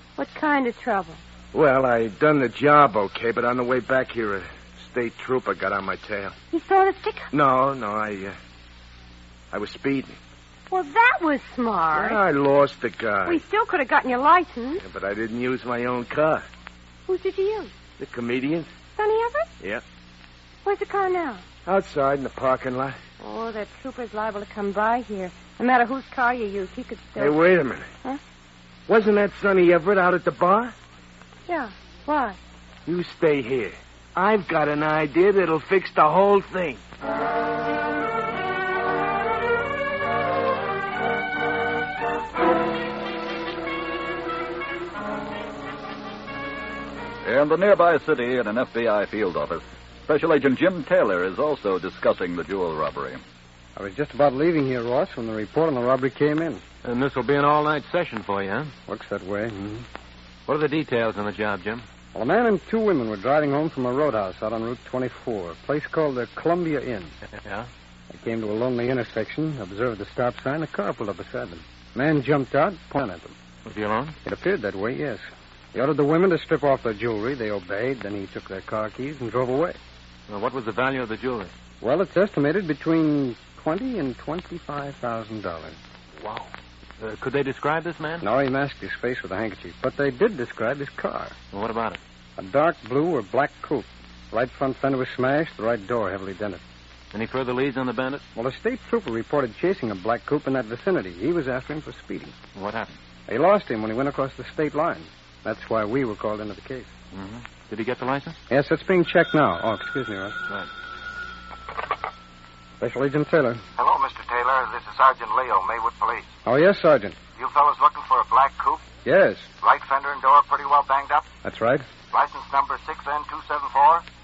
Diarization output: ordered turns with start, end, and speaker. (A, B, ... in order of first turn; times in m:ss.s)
0:00.2-0:01.2 A
0:01.5-0:06.3 B
0:06.5-0:07.3 A
0:07.3-0:08.3 B
0:09.5-0:10.2 B
0:10.7-0:12.2 A
0:11.9-0:13.4 B
0:13.2-0:14.8 A
0:14.8-0:16.4 B
0:17.1-0:17.7 A
0:18.0-0:18.7 B
0:19.0-0:19.5 A
0:20.6-0:21.4 A
0:21.6-0:23.0 B
0:23.2-0:27.4 A
0:27.2-0:27.8 B
0:28.9-0:30.7 B
0:31.5-0:32.4 A
0:32.8-0:36.8 B
0:47.2-0:53.2 C
0:53.8-0:56.6 D
0:56.8-0:58.7 E
0:58.9-0:59.8 D
1:00.5-1:01.8 E
1:02.1-1:07.1 D
1:07.3-1:07.7 E
1:08.1-1:13.3 D
1:13.6-1:14.2 E
1:14.2-1:19.8 D
1:20.3-1:21.5 E
1:21.8-1:25.8 D
1:26.2-1:26.5 E
1:27.0-1:28.2 E
1:28.2-1:31.4 D
1:31.5-1:32.0 E
1:32.4-1:36.6 D
1:37.1-1:38.2 E
1:38.3-1:42.3 D
1:42.5-1:42.9 E
1:43.3-1:46.9 D
1:47.1-1:48.4 E
1:48.5-1:50.4 D
1:52.8-1:53.6 D
1:53.8-1:56.3 F
1:56.4-1:57.2 D
1:57.4-1:58.8 F
1:59.0-1:59.5 D
1:59.6-2:01.3 F
2:01.4-2:01.8 D
2:02.1-2:04.0 F